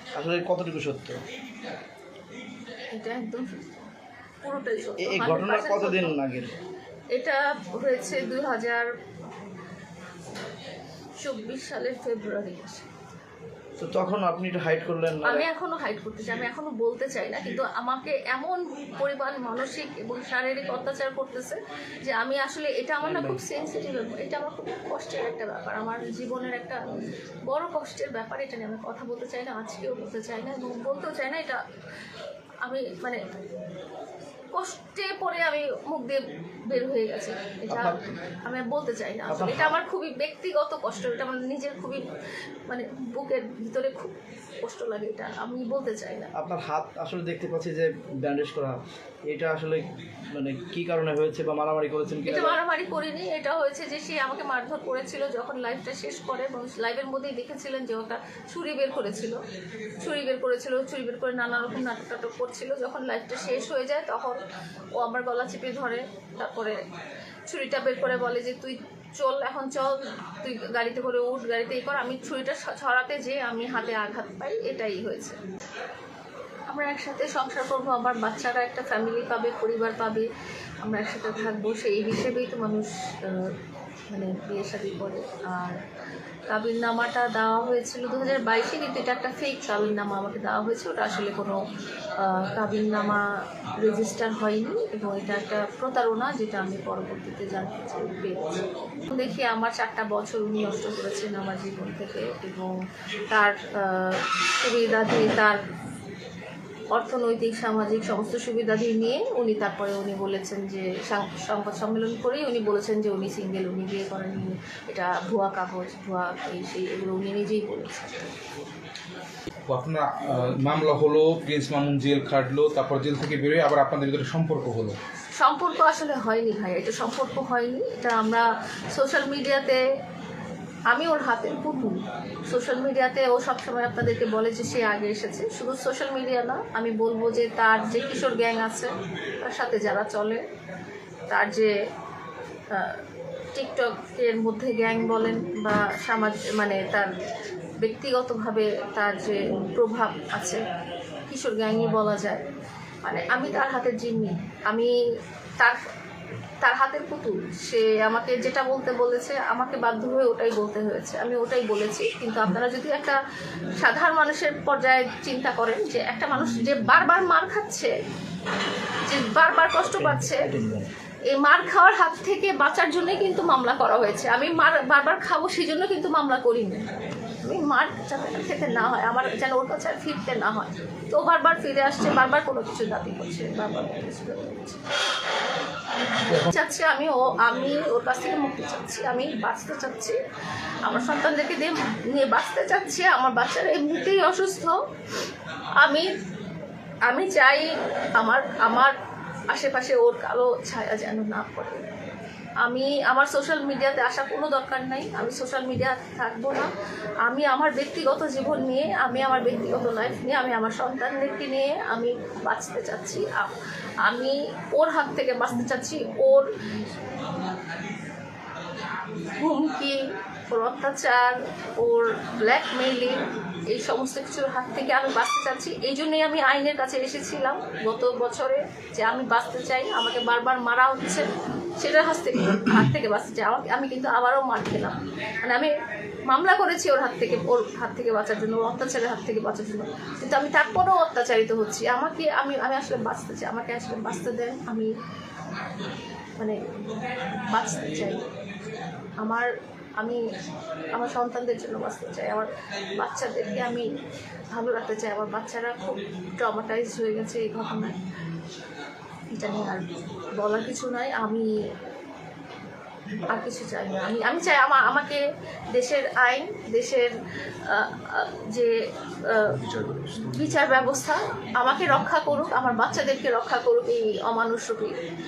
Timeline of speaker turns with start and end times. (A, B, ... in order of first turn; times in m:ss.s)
0:00.2-0:01.2 A
0:02.9-0:03.9 B
0:04.4-0:06.2 B
0:05.0-0:06.5 A
0:07.1-0:08.9 B
0:11.2-0:12.9 B
0:13.8-0:15.5 A
0:15.2-0:26.8 B
0:27.5-0:31.6 B
0:32.6-0:33.2 B
0:34.5-0:42.1 B
0:37.7-0:38.0 A
0:39.3-0:39.8 A
0:42.7-0:46.3 B
0:46.3-0:52.6 A
0:52.3-0:59.4 B
1:00.0-1:04.4 B
1:05.0-1:06.8 B
1:07.5-1:15.4 B
1:16.7-1:20.3 B
1:20.8-1:23.5 B
1:24.1-1:25.8 B
1:26.5-1:31.6 B
1:32.2-1:33.2 B
1:33.8-1:42.8 B
1:43.3-1:45.6 B
1:46.9-1:58.3 B
1:59.7-2:05.0 C
2:05.4-2:09.8 B
2:10.9-2:20.4 B
2:21.3-2:21.7 B
2:22.7-2:23.0 B
2:23.6-2:27.1 B
2:27.8-2:30.6 B
2:31.3-2:32.4 B
2:33.0-2:34.9 B
2:36.6-2:43.2 B
2:43.8-2:47.9 B
2:49.1-2:50.5 B
2:49.8-2:50.9 A
2:51.3-3:04.8 B
3:06.3-3:10.2 B
3:10.8-3:14.8 B
3:15.8-3:16.1 B
3:17.1-3:18.9 B
3:19.5-3:21.8 B
3:22.6-3:26.7 B
3:27.2-3:33.5 B
3:34.0-3:36.5 B
3:39.4-3:40.0 B
3:40.5-3:51.3 B
3:51.8-3:55.7 B
3:56.3-4:04.9 B
4:07.5-4:08.2 B
4:09.2-4:10.2 B
4:10.9-4:12.5 B
4:13.0-4:13.9 B
4:14.5-4:18.0 B
4:19.3-4:19.8 B
4:20.4-4:21.5 B
4:23.3-4:25.2 B
4:25.7-4:27.1 B
4:27.7-4:28.7 B
4:29.3-4:35.0 B